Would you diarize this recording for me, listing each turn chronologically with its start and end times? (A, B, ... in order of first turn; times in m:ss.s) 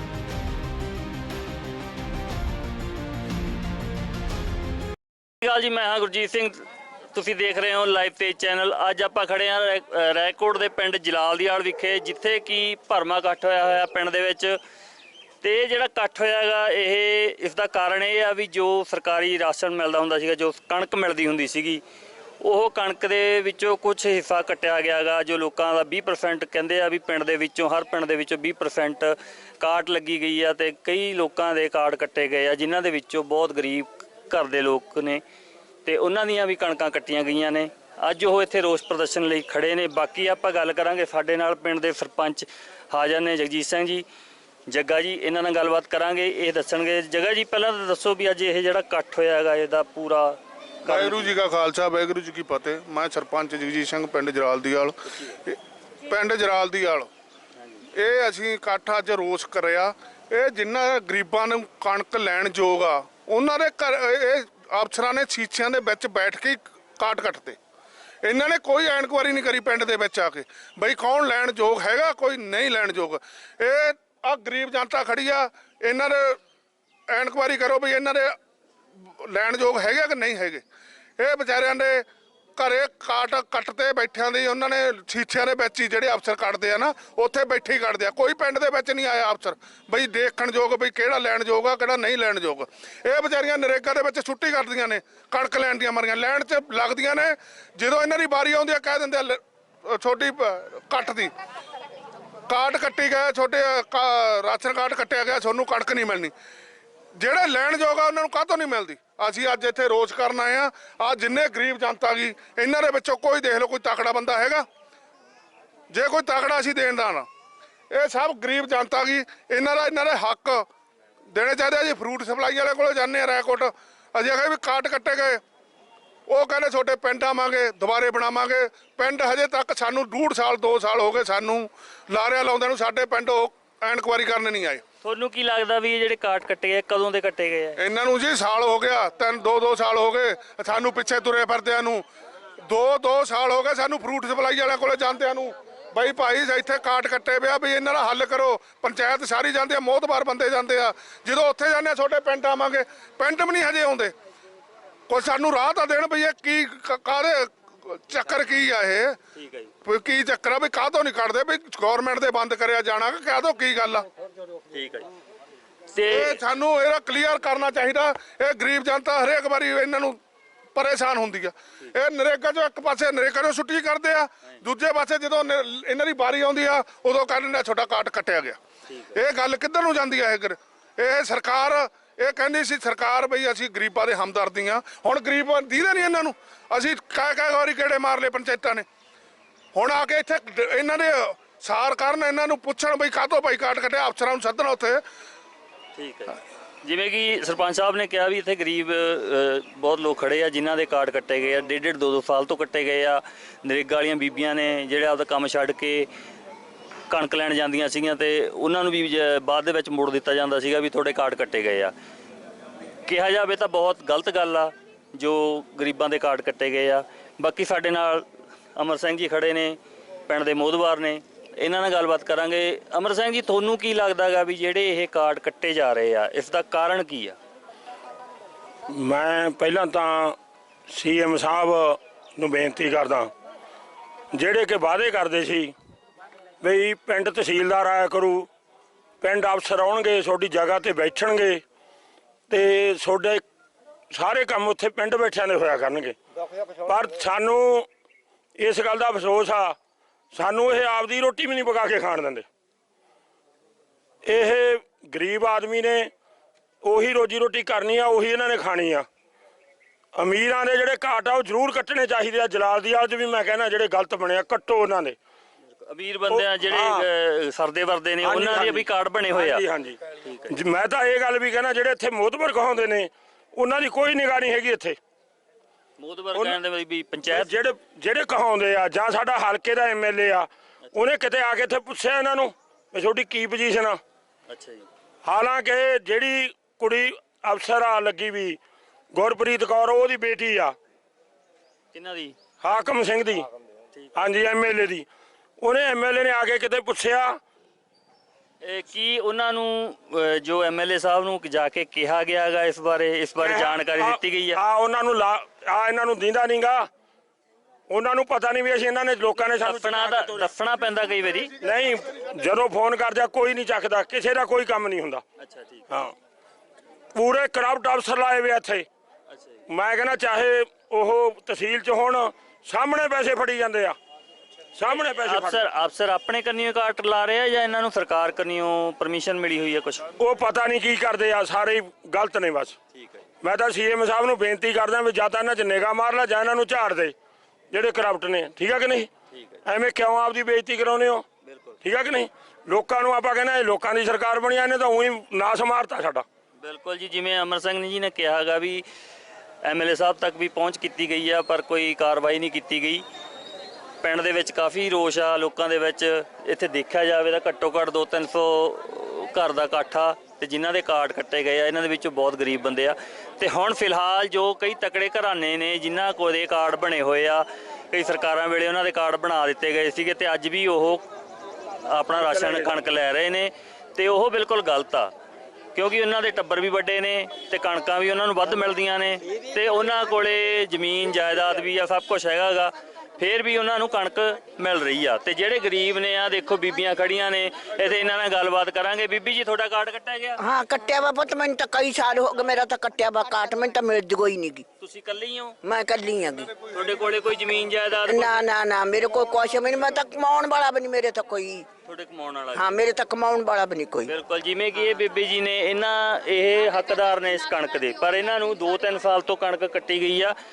0:05.4-0:06.6 A
0:07.1-0:14.6 A
0:15.4-0:21.8 A
0:22.4-0:35.2 A
0:35.8-0:44.0 A
0:44.7-0:51.3 A
0:50.8-0:57.1 B
0:57.9-1:07.6 B
1:08.2-1:16.4 B
1:17.1-1:18.4 B
1:19.0-1:20.6 B
1:21.2-1:22.0 B
1:22.6-1:41.3 B
1:42.5-1:46.3 B
1:47.2-1:54.6 B
1:55.9-1:57.2 B
1:57.9-2:00.6 B
2:01.3-2:05.4 B
2:06.3-2:14.8 B
2:15.0-2:17.8 A
2:17.8-2:22.0 B
2:22.7-2:34.1 B
2:35.1-2:39.2 B
2:39.4-2:39.7 A
2:39.8-2:44.1 B
2:44.7-2:45.1 A
2:45.9-2:46.4 A
2:46.0-2:50.2 B
2:50.7-2:58.6 B
2:58.9-2:59.2 A
2:59.1-3:08.8 B
3:09.7-3:15.0 B
3:16.0-3:26.1 A
3:27.1-3:31.9 A
3:33.0-3:39.8 A
3:40.3-3:47.4 A
3:48.9-3:53.3 C
3:54.3-3:55.7 C
3:56.6-3:58.5 C
3:59.2-4:01.6 C
4:02.5-4:03.4 C
4:04.1-4:07.9 C
4:08.6-4:09.8 C
4:10.3-4:12.4 C
4:14.2-4:16.1 C
4:16.8-4:19.1 C
4:20.1-4:25.2 C
4:25.8-4:29.6 A
4:26.3-4:27.1 C
4:28.2-4:35.0 C
4:30.2-4:30.5 A
4:36.0-4:37.5 A
4:36.3-4:36.6 C
4:37.3-4:44.0 C
4:44.5-4:44.9 A
4:45.2-4:48.6 C
4:49.1-4:50.8 C
4:51.9-4:52.4 A
4:52.6-4:53.5 C
4:54.1-4:55.1 C
4:55.6-4:57.4 C
4:58.6-5:04.6 A
5:03.4-5:06.9 C
5:07.9-5:10.5 C
5:09.6-5:11.5 A
5:11.6-5:15.2 C
5:15.4-5:15.9 A
5:15.9-5:16.1 C
5:17.1-5:18.9 C
5:19.3-5:19.6 A
5:19.7-5:24.0 C
5:24.7-5:25.6 C
5:25.2-5:30.1 A
5:30.2-5:32.8 C
5:32.9-5:33.2 A
5:33.4-5:37.1 C
5:37.7-5:39.1 C
5:39.3-5:39.6 A
5:39.6-5:41.2 C
5:41.4-5:41.8 A
5:41.8-5:46.2 C
5:46.6-5:48.8 A
5:49.6-5:53.0 A
5:54.0-6:11.0 A
6:11.8-6:15.1 A
6:12.3-6:12.6 C
6:15.7-6:30.4 A
6:30.4-6:34.6 D
6:34.8-6:35.6 A
6:35.6-6:36.5 D
6:36.7-6:38.4 A
6:38.0-6:41.7 D
6:41.8-6:42.7 A
6:42.5-6:44.1 D
6:44.0-6:50.3 A